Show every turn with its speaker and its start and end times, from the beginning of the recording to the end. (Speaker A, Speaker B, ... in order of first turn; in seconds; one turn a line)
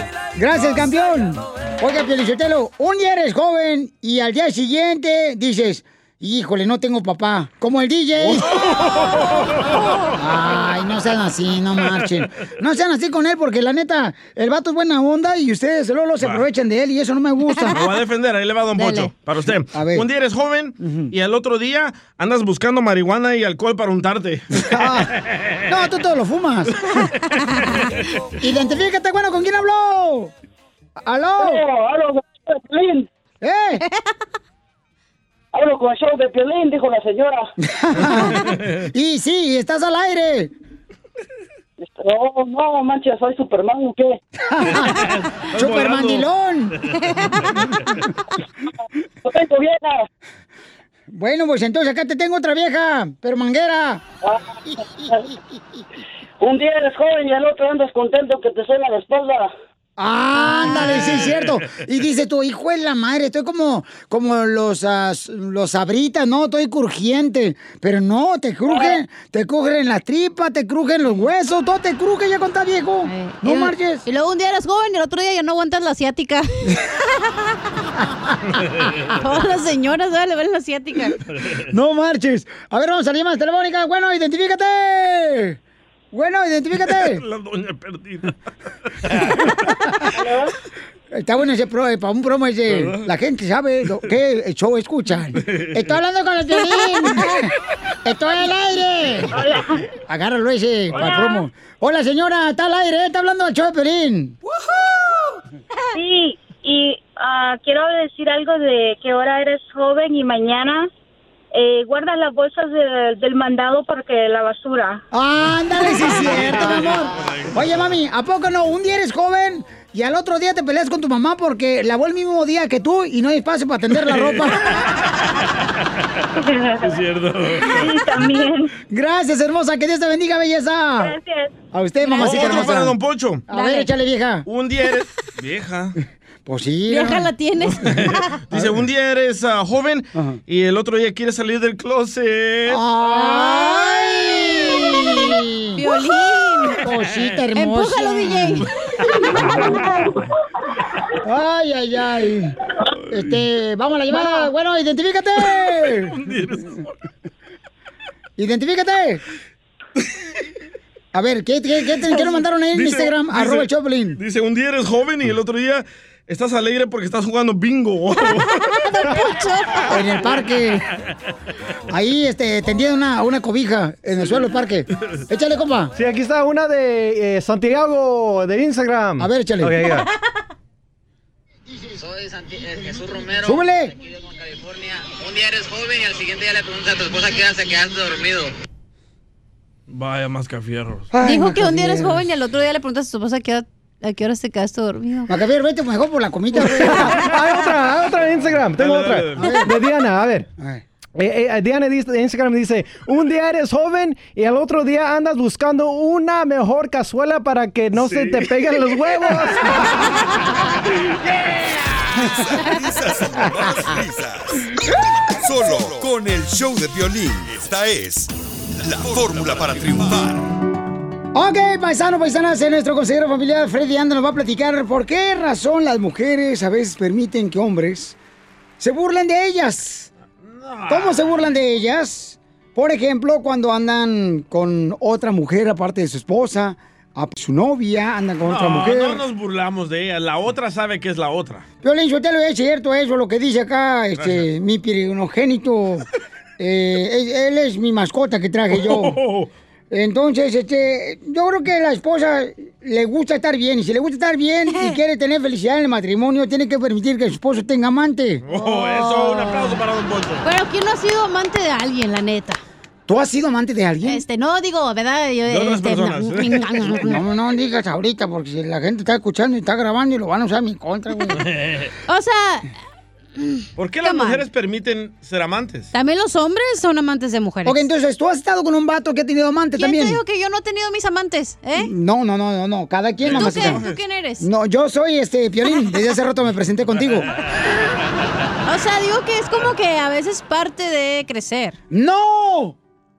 Speaker A: 0.3-8.5
Speaker B: 8.2-9.8
Speaker C: 8.8-10.1
Speaker A: 10.1-17.8
Speaker B: 17.7-25.6
Speaker C: 18.8-19.1
Speaker A: 19.7-20.1
Speaker A: 20.8-21.1
Speaker A: 24.6-25.1
Speaker A: 25.7-26.8
Speaker A: 28.4-30.3
Speaker A: 31.0-31.6
Speaker D: 31.4-33.1
Speaker A: 33.4-33.8
Speaker D: 35.5-37.5
Speaker A: 37.6-40.5
Speaker B: 38.5-38.7
Speaker D: 41.9-44.2
Speaker A: 44.5-46.7
Speaker B: 44.9-46.3
Speaker C: 47.2-47.4
Speaker D: 49.2-50.1
Speaker A: 51.1-54.0
Speaker D: 54.2-55.3
Speaker A: 54.7-55.1
Speaker D: 56.4-59.5
Speaker A: 60.0-74.0
Speaker C: 60.4-61.2
Speaker B: 60.9-61.6
Speaker D: 68.7-68.9
Speaker C: 73.0-77.6
Speaker B: 78.6-78.9
Speaker C: 79.0-81.2
Speaker B: 81.3-81.7
Speaker A: 81.7-85.6
Speaker A: 86.1-87.2
Speaker B: 86.9-88.3
Speaker B: 89.0-89.7
Speaker E: 90.2-90.5
Speaker A: 91.1-97.5
Speaker B: 92.7-93.1
Speaker B: 95.4-95.7
Speaker C: 96.6-97.0
Speaker A: 98.0-99.3
Speaker E: 99.3-99.7
Speaker A: 100.1-104.3
Speaker B: 100.9-101.2
Speaker C: 101.0-101.4
Speaker E: 105.9-110.9
Speaker E: 111.5-115.0
Speaker A: 115.1-124.6
Speaker B: 116.0-118.0
Speaker B: 124.2-124.8
Speaker E: 126.3-126.9
Speaker B: 126.8-127.9
Speaker E: 127.6-128.7
Speaker A: 128.9-131.1
Speaker E: 131.0-131.5
Speaker A: 131.7-132.9
Speaker C: 132.0-132.8
Speaker B: 132.2-133.4
Speaker A: 133.5-134.4
Speaker C: 133.5-133.9
Speaker B: 134.4-136.0
Speaker A: 136.4-137.3
Speaker C: 136.9-138.4
Speaker B: 137.6-142.8
Speaker A: 138.5-138.8
Speaker A: 142.7-145.8
Speaker C: 143.1-146.8
Speaker A: 146.8-148.7
Speaker C: 147.6-148.7
Speaker B: 149.1-149.9
Speaker A: 151.2-152.5
Speaker A: 153.1-156.2
Speaker C: 154.1-154.5
Speaker B: 155.8-156.9
Speaker A: 158.4-159.2
Speaker A: 161.1-164.2
Speaker C: 162.1-162.4
Speaker B: 162.7-168.5
Speaker C: 168.3-169.9
Speaker A: 169.9-170.8
Speaker A: 171.9-175.9
Speaker F: 175.9-180.1
Speaker A: 179.2-179.9
Speaker G: 182.0-188.5
Speaker A: 183.4-183.9
Speaker B: 189.9-191.1
Speaker A: 191.1-192.2
Speaker C: 191.2-195.3
Speaker A: 195.3-197.2
Speaker F: 196.5-200.5
Speaker C: 196.9-197.5
Speaker B: 198.7-199.6
Speaker A: 199.4-199.7
Speaker F: 201.2-210.0
Speaker B: 207.9-208.8
Speaker H: 212.1-214.6
Speaker H: 215.4-220.4
Speaker A: 221.3-228.2
Speaker A: 228.8-230.1
Speaker B: 230.4-231.4
Speaker A: 230.9-239.2
Speaker B: 238.5-241.6
Speaker A: 241.8-246.1
Speaker B: 244.2-244.4
Speaker A: 246.6-249.2
Speaker B: 248.7-249.5
Speaker A: 249.9-258.4
Speaker B: 258.4-260.4
Speaker C: 258.5-259.8
Speaker C: 260.4-262.6
Speaker A: 263.1-264.2
Speaker C: 264.0-267.2
Speaker B: 265.5-267.1
Speaker A: 266.8-271.5
Speaker B: 271.4-271.9
Speaker C: 272.1-272.7
Speaker C: 273.4-274.4
Speaker B: 273.8-275.9
Speaker C: 275.9-277.8
Speaker A: 277.6-280.2
Speaker C: 279.8-281.9
Speaker A: 281.7-283.8
Speaker B: 283.2-284.0
Speaker C: 283.3-284.5
Speaker A: 284.4-287.3
Speaker C: 288.6-291.8
Speaker A: 291.9-292.8